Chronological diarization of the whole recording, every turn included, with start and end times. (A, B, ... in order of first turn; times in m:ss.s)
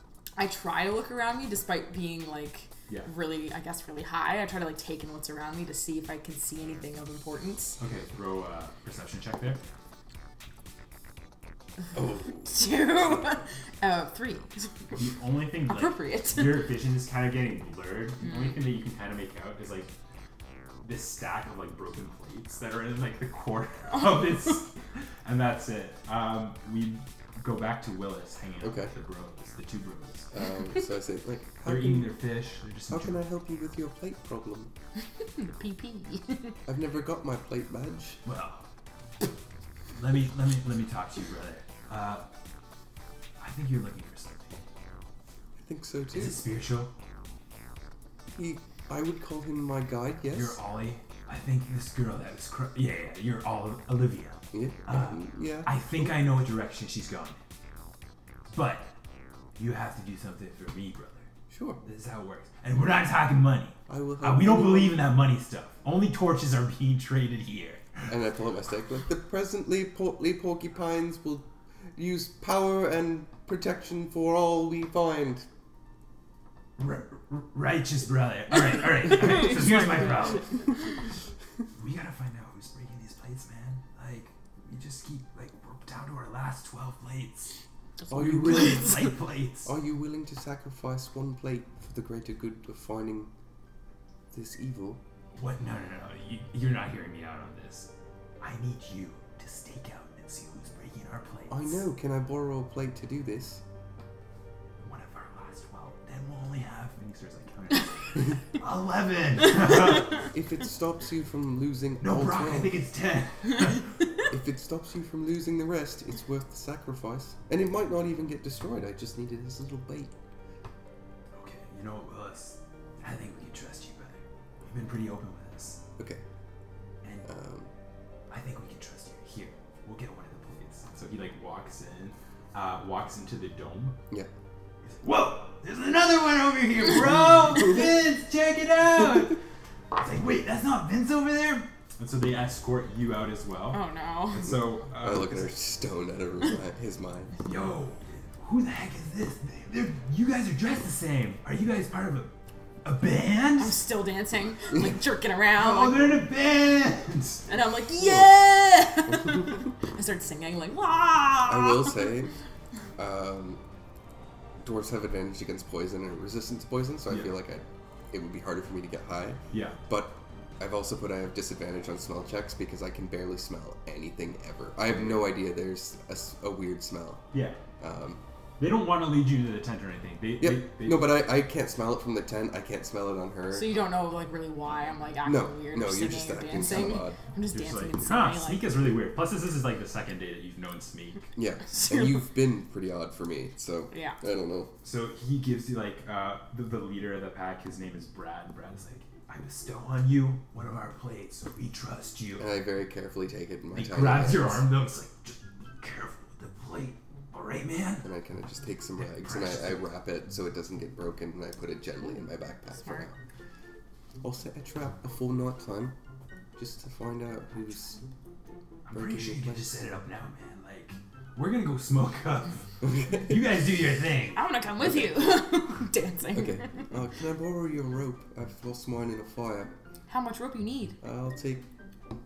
0:00.4-0:07.8 A
0:07.8-0:09.6 B
0:11.9-0:13.0 C
0:12.5-0:14.7 A
0:15.0-0:19.9 B
0:15.6-0:16.7 A
0:20.8-0:24.7 B
0:25.2-0:30.3 B
0:28.6-0:28.9 C
0:30.3-0:32.1 C
0:31.6-0:33.2 B
0:32.9-0:34.7 C
0:35.4-0:36.5 A
0:36.6-0:38.2 C
0:38.2-0:38.6 B
0:39.9-0:42.2 B
0:43.4-0:44.6 B
0:45.6-0:46.4 C
0:46.1-0:46.9 B
0:48.3-0:50.6 C
0:50.3-0:57.4 B
0:54.5-0:56.2 C
0:58.5-0:58.9 B
0:59.6-1:01.2 B
1:01.5-1:01.8 C
1:01.8-1:08.1 B
1:03.9-1:05.1 C
1:08.1-1:15.5 C
1:16.8-1:20.6 B
1:21.7-1:27.5 B
1:28.0-1:29.0 A
1:28.1-1:29.7 B
1:28.1-1:29.1 C
1:29.6-1:33.3 C
1:34.3-1:35.0 C
1:35.3-1:37.9 B
1:38.4-1:41.8 B
1:41.5-1:43.6 C
1:44.8-1:50.3 B
1:50.1-1:52.8 C
1:52.0-1:53.9 B
1:54.3-2:00.1 C
2:01.3-2:05.8 B
2:07.0-2:07.3 B
2:07.2-2:07.7 C
2:08.3-2:14.0 B
2:14.8-2:19.4 B
2:19.9-2:25.5 B
2:23.7-2:24.5 A
2:25.0-2:27.4 C
2:27.4-2:32.3 B
2:32.8-2:33.8 B
2:33.6-2:36.2 A
2:35.5-2:37.4 B
2:37.5-2:42.1 A
2:38.0-2:38.3 C
2:41.4-2:42.3 C
2:43.0-2:43.6 C
2:44.6-2:57.2 C
2:47.1-2:47.3 B
2:49.5-2:49.8 B
2:54.8-2:55.3 B
2:57.3-2:57.6 B
2:57.8-2:58.2 C
2:58.6-3:01.2 B
3:00.4-3:03.8 C
3:03.5-3:08.7 A
3:05.2-3:07.2 C
3:07.5-3:11.3 B
3:11.4-3:14.7 C
3:11.7-3:12.2 A
3:13.9-3:14.2 A
3:14.8-3:22.5 B
3:22.4-3:24.7 C
3:23.7-3:28.0 B
3:28.0-3:33.2 C
3:29.0-3:29.8 B
3:34.2-3:36.0 C
3:36.6-3:38.0 C
3:38.8-3:44.4 B
3:38.9-3:39.7 C
3:42.8-3:43.3 C
3:44.3-3:46.9 A
3:46.3-3:49.7 C
3:50.1-3:51.0 A
3:51.0-3:51.6 C